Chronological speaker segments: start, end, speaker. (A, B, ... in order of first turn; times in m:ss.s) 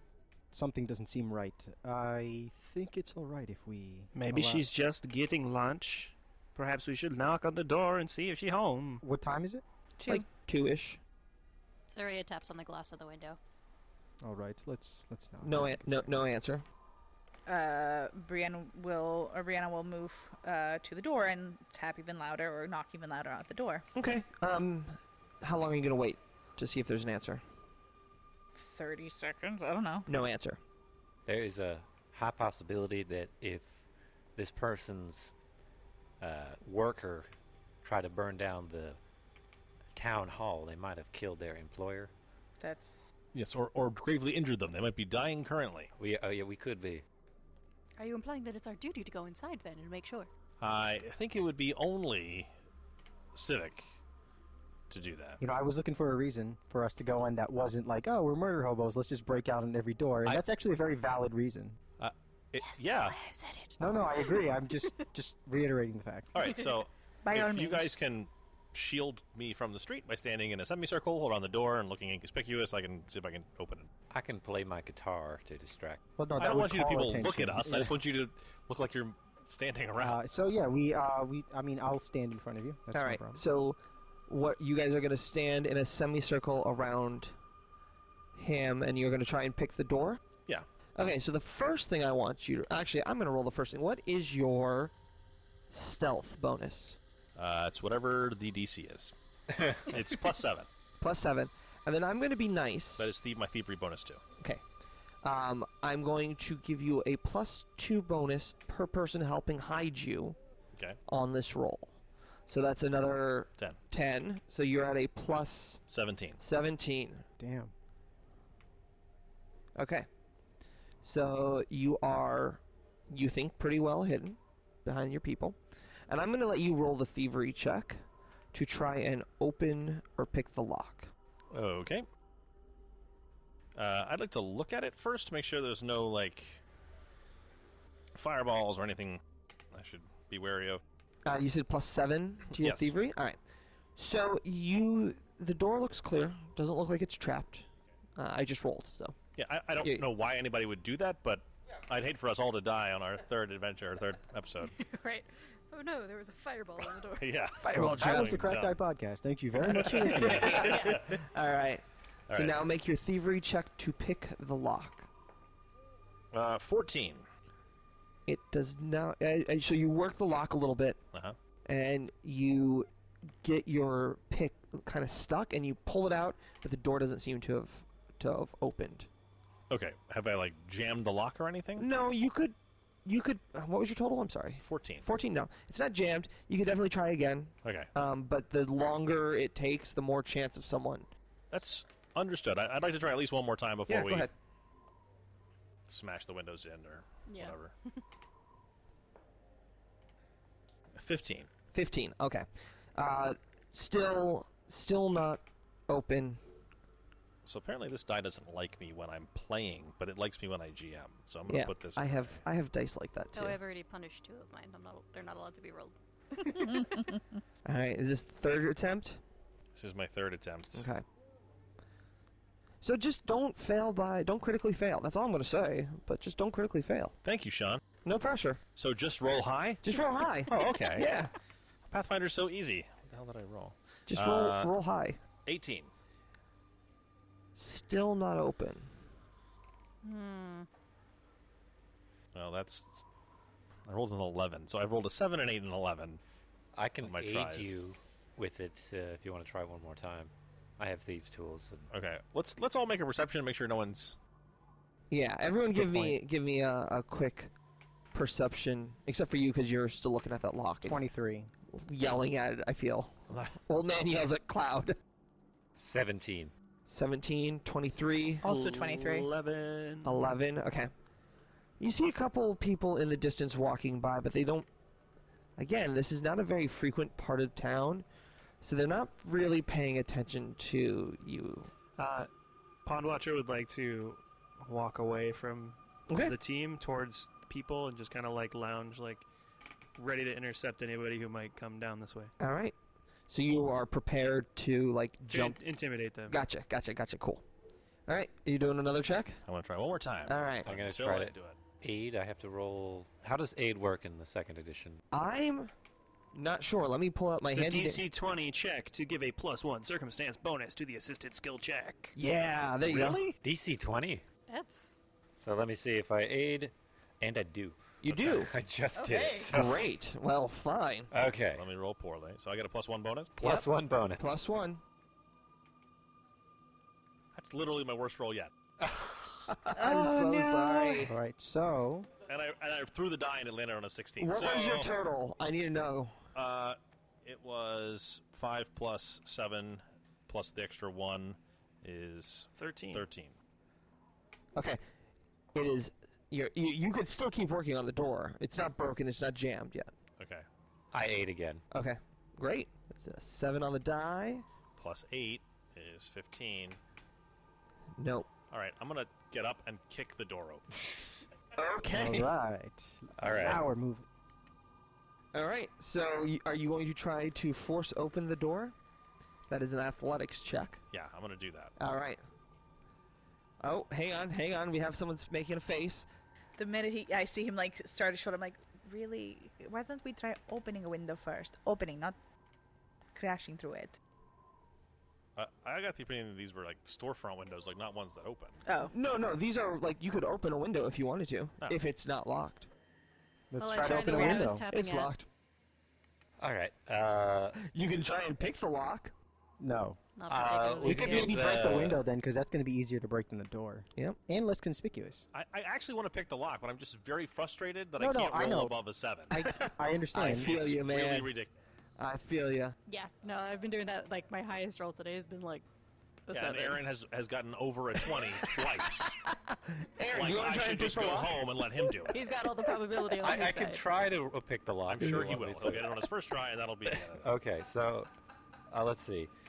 0:00.5-0:04.7 A
0:04.1-0:09.0 B
0:09.0-0:09.6 A
0:10.0-0:10.2 C
0:10.1-0:11.0 D
0:11.9-0:13.4 E
0:14.2-0:16.1 A
0:15.4-0:16.6 D
0:17.5-0:23.9 C
0:24.0-0:27.4 D
0:28.6-0:30.1 C
0:30.1-0:30.6 D
0:31.3-0:33.7 F
0:34.4-0:35.3 F
0:36.2-0:37.3 F
0:37.8-0:39.0 F
0:40.0-0:42.1 F
0:42.6-0:43.1 C
0:43.3-0:45.9 G
0:46.0-0:47.0 F
0:48.0-0:50.3 E
0:50.6-0:52.5 G
0:53.4-0:53.9 G
0:54.9-0:55.4 G
0:55.4-1:01.8 A
1:02.0-1:03.2 G
1:02.6-1:03.8 E
1:03.8-1:06.5 A
1:06.4-1:13.9 G
1:07.2-1:08.0 C
1:14.1-1:16.0 F
1:16.2-1:17.9 A
1:16.4-1:20.2 G
1:20.0-1:23.4 A
1:22.9-1:27.3 D
1:28.4-1:30.2 D
1:31.0-1:34.9 D
1:35.7-1:37.0 D
1:37.4-1:39.1 G
1:39.8-1:40.7 G
1:41.0-1:43.1 D
1:43.0-1:44.2 G
1:45.2-1:50.4 D
1:51.1-1:51.9 D
1:52.5-1:55.8 D
1:55.9-1:56.4 G
1:56.4-1:57.2 D
1:57.4-1:57.7 A
1:59.8-2:00.1 D
2:01.0-2:08.0 D
2:08.5-2:11.1 D
2:11.5-2:12.1 G
2:13.8-2:16.6 G
2:18.2-2:19.2 G
2:19.7-2:20.8 G
2:21.2-2:23.4 D
2:22.5-2:22.9 G
2:24.0-2:27.7 D
2:28.2-2:29.2 D
2:29.4-2:34.8 G
2:34.6-2:37.5 E
2:37.2-2:38.8 G
2:37.7-2:38.3 D
2:37.8-2:40.9 A
2:39.6-2:41.2 G
2:40.2-2:45.1 D
2:40.6-2:41.0 E
2:42.3-2:42.6 G
2:46.3-2:47.2 G
2:48.3-2:51.0 D
2:51.6-2:52.9 D
2:53.4-2:59.1 D
2:59.7-3:01.9 G
3:01.8-3:11.1 D
3:04.6-3:05.1 G
3:07.6-3:07.9 G
3:11.5-3:14.3 G
3:13.9-3:14.3 D
3:15.9-3:17.7 G
3:17.3-3:17.6 E
3:21.0-3:21.5 G
3:21.7-3:26.4 D
3:27.4-3:32.4 G
3:31.5-3:33.6 D
3:33.3-3:37.2 E
3:36.6-3:37.2 C
3:37.6-3:39.2 D
3:39.8-3:40.9 G
3:40.7-3:41.0 D
3:42.8-3:47.1 D
3:47.2-3:47.8 G
3:48.0-3:48.6 D
3:48.8-3:51.1 G
3:49.8-3:51.3 D
3:51.9-3:54.7 G
3:54.1-3:55.2 D
3:55.4-3:55.9 G
3:57.6-3:58.9 D
4:00.0-4:00.7 E
4:02.4-4:03.0 G
4:03.9-4:06.2 G
4:06.7-4:11.9 F
4:07.0-4:07.8 G
4:11.9-4:14.2 G
4:15.1-4:17.5 D
4:15.6-4:16.2 A
4:18.1-4:21.0 D
4:20.8-4:21.5 A
4:21.7-4:23.1 D
4:23.3-4:23.6 G
4:23.7-4:25.0 D
4:25.8-4:26.5 F
4:26.9-4:28.4 D
4:28.4-4:29.3 C
4:28.4-4:30.3 B
4:30.0-4:30.9 D
4:31.8-4:34.7 D
4:35.6-4:38.1 D
4:38.6-4:41.7 D
4:42.0-4:42.3 B
4:42.8-4:49.3 B
4:46.1-4:46.4 D
4:50.0-4:52.3 B
4:52.4-4:52.8 D
4:53.3-4:55.6 D
4:55.2-4:56.4 B
4:56.3-4:57.4 D
4:58.1-4:59.4 D
4:59.5-5:01.6 G
5:00.3-5:00.7 D
5:00.6-5:05.0 F
5:05.1-5:05.7 D
5:06.3-5:08.0 D
5:07.5-5:12.2 B
5:12.2-5:13.3 D
5:13.3-5:14.2 F
5:14.5-5:15.0 E
5:15.4-5:19.8 F
5:18.0-5:18.5 D
5:19.0-5:19.5 C
5:19.5-5:21.1 D
5:21.1-5:21.6 F
5:21.5-5:23.4 G
5:23.4-5:24.2 F
5:23.4-5:23.7 D
5:24.2-5:24.8 D
5:27.3-5:28.5 G
5:28.8-5:29.6 F
5:29.5-5:31.1 D
5:29.7-5:31.1 C
5:31.0-5:32.1 A
5:32.3-5:34.9 G
5:34.2-5:36.2 D
5:36.4-5:43.4 G
5:42.6-5:43.1 B
5:44.6-5:44.8 D
5:45.5-5:49.9 D
5:50.2-5:50.4 G
5:50.9-5:51.6 F
5:51.7-5:54.4 D
5:54.8-5:56.8 G
5:58.0-5:58.3 D
5:58.5-6:01.1 G
6:01.6-6:02.3 D
6:01.9-6:04.1 A
6:03.2-6:03.7 F
6:05.3-6:08.8 D
6:09.5-6:10.8 D
6:10.9-6:11.7 G
6:11.8-6:12.2 D
6:13.6-6:16.1 D
6:16.6-6:22.2 C
6:23.2-6:24.0 C
6:25.4-6:28.6 G
6:28.7-6:28.9 C
6:28.9-6:32.7 D
6:33.5-6:34.7 A
6:33.6-6:35.1 E
6:33.9-6:35.3 D
6:36.4-6:37.6 F
6:37.6-6:39.1 D
6:39.6-6:40.0 A
6:40.2-6:41.4 E
6:40.3-6:42.0 F
6:40.8-6:45.2 A
6:45.3-6:49.4 G
6:48.0-6:48.8 A
6:49.3-6:51.3 D
6:49.3-6:50.5 A
6:50.2-6:51.5 G
6:52.0-6:52.8 D
6:52.9-6:55.7 E
6:56.3-6:56.8 E
6:56.3-6:59.2 G
6:59.1-7:01.4 D
7:00.1-7:02.2 G
7:02.1-7:03.8 E
7:03.2-7:06.0 F
7:04.9-7:07.2 G
7:05.0-7:05.3 D
7:07.0-7:08.1 F
7:08.7-7:09.3 F